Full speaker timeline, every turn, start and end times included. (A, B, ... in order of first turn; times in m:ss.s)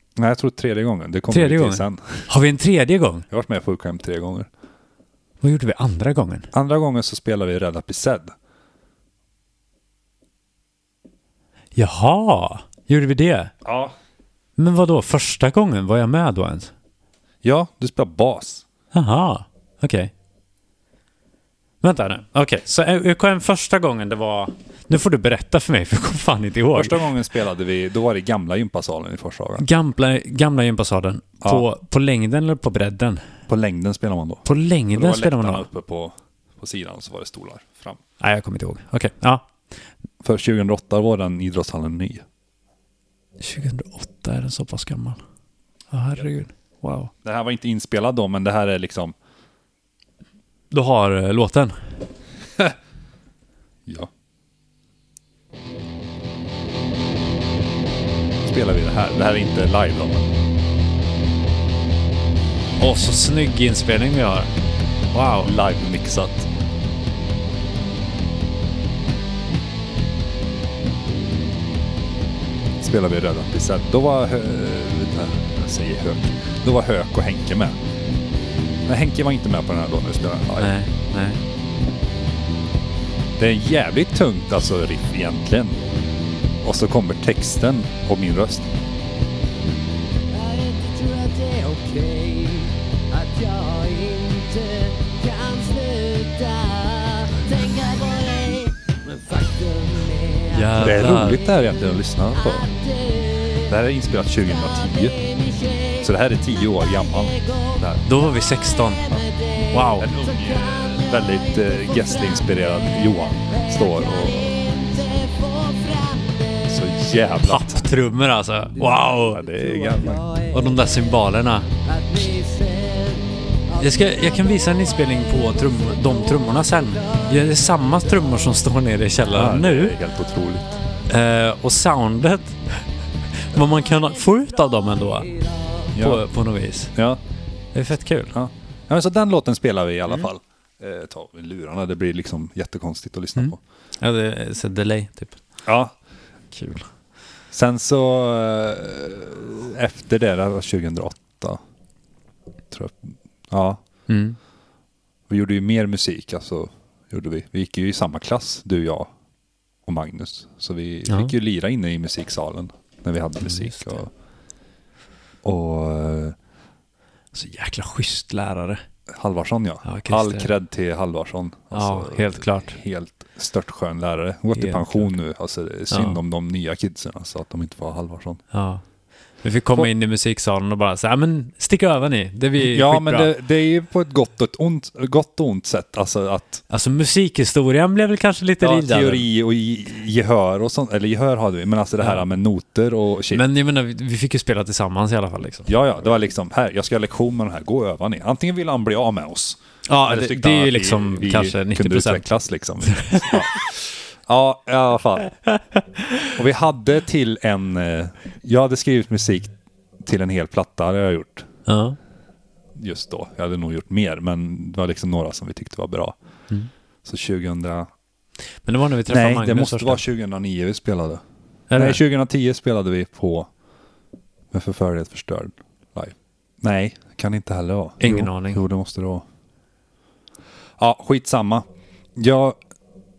0:00.2-0:02.3 A
0:01.3-0:03.2 B
0:03.3-0:04.5 A
0:05.4-0:06.5 B
0:06.5-0:08.3 A
0:11.8-0:13.5 B
0:13.6-0:13.9 A
0:14.6-0:16.7 B
0:17.4-0:18.6 A
0:18.9-0:20.1 B
0:21.8-0:27.1 B
0:26.7-0:29.6 A
0:29.6-0:33.2 B
0:33.5-0:38.0 A
0:34.4-0:35.7 B
0:38.2-0:39.5 B
0:40.2-0:42.2 A
0:43.4-0:45.2 B
0:45.9-0:47.1 B
0:47.2-0:49.1 A
0:50.7-0:52.0 B
0:53.8-0:54.1 A
0:58.4-1:00.3 A
1:02.8-1:04.5 B
1:05.1-1:05.5 B
1:05.4-1:06.5 A
1:12.8-1:17.8 A
1:18.9-1:20.8 A
1:20.6-1:21.4 B
1:23.4-1:25.8 A
1:26.6-1:28.7 A
1:30.3-1:40.7 C
1:40.5-1:41.4 B
1:40.8-1:42.7 A
1:42.6-1:43.6 C
1:43.6-1:45.2 A
1:45.1-1:46.0 C
1:46.0-1:48.0 A
1:48.0-1:50.1 B
1:49.1-1:49.5 C
1:50.0-1:54.6 A
1:50.2-1:52.4 C
1:53.5-1:56.4 C
1:56.6-1:57.9 A
1:57.4-1:59.4 B
1:58.9-2:00.3 A
1:59.9-2:00.5 C
2:00.5-2:01.7 B
2:01.9-2:03.3 C
2:03.8-2:10.0 B
2:09.3-2:10.7 A
2:11.0-2:12.8 B
2:13.4-2:15.3 B
2:15.9-2:16.9 B
2:15.9-2:16.2 A
2:16.9-2:17.2 A
2:17.7-2:18.3 B
2:18.3-2:23.6 A
2:23.4-2:25.4 B
2:25.6-2:25.9 A
2:26.5-2:26.9 B
2:27.5-2:31.6 A
2:32.7-2:33.8 A
2:34.1-2:34.4 B
2:35.3-2:39.1 A
2:39.8-2:44.1 A
2:41.1-2:41.3 B
2:43.4-2:44.0 B
2:45.4-2:46.4 A
2:47.3-2:48.8 B
2:49.1-2:58.4 A
2:49.8-2:50.5 B
2:51.7-2:52.8 B
2:54.5-2:55.1 B
2:55.9-2:56.2 B
2:58.5-2:58.8 B
2:59.4-3:03.3 B
3:02.6-3:06.6 A
3:06.7-3:09.2 B
3:08.6-3:13.4 A
3:13.3-3:15.7 B
3:15.7-3:25.3 A
3:19.9-3:22.3 B
3:22.8-3:23.5 B
3:25.5-3:26.3 B
3:26.3-3:31.5 A
3:31.6-3:32.0 B
3:32.8-3:36.1 A
3:37.0-3:37.9 A
3:38.6-3:40.0 B
3:39.1-3:41.2 A
3:41.7-3:42.0 B
3:41.7-3:43.5 A
3:44.5-3:49.2 A
3:48.0-3:48.6 B
3:50.8-3:52.6 A